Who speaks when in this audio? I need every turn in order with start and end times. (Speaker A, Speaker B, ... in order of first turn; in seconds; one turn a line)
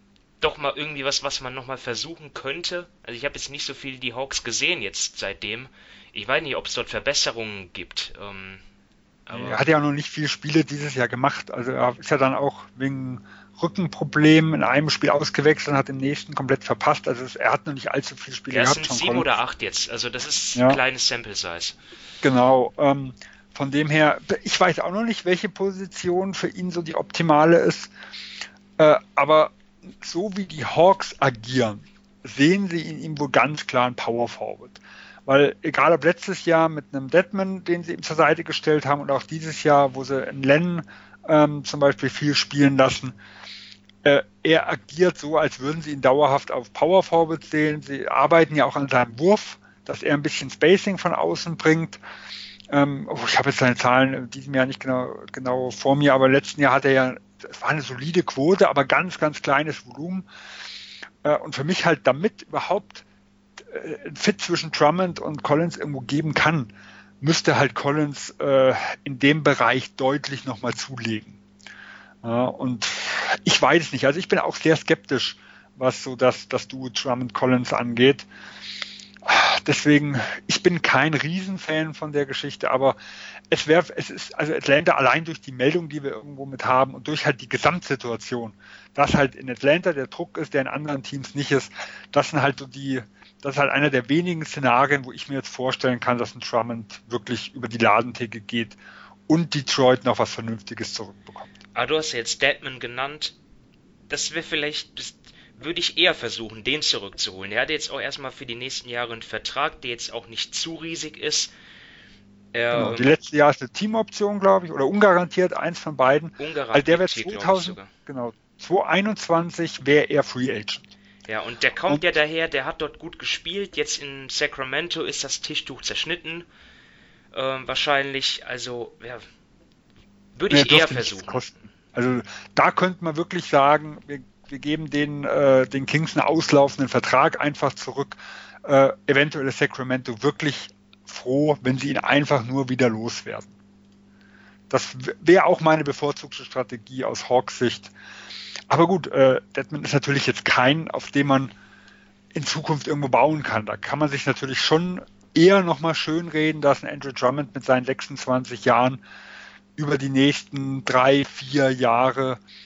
Speaker A: 0.4-8.6
Speaker A: 9.3-9.6
Speaker B: 9.3-19.3
Speaker A: 18.5-21.8
Speaker B: 22.2-27.9
Speaker B: 28.8-43.1
Speaker B: 44.0-52.0
Speaker B: 52.7-60.2
Speaker B: 61.2-63.0
Speaker B: 63.6-71.4
Speaker B: 72.2-78.3
Speaker B: 79.2-83.0
Speaker B: 83.5-101.5
Speaker A: 101.7-103.4
Speaker A: 104.1-111.5
Speaker A: 112.5-113.1
Speaker B: 112.7-120.9
Speaker A: 116.4-117.9
Speaker A: 121.3-126.5
Speaker A: 127.3-129.2
Speaker A: 130.4-131.4
Speaker B: 130.5-143.5
Speaker B: 144.7-147.9
Speaker B: 148.7-151.5
Speaker B: 152.3-159.0
Speaker B: 159.8-162.4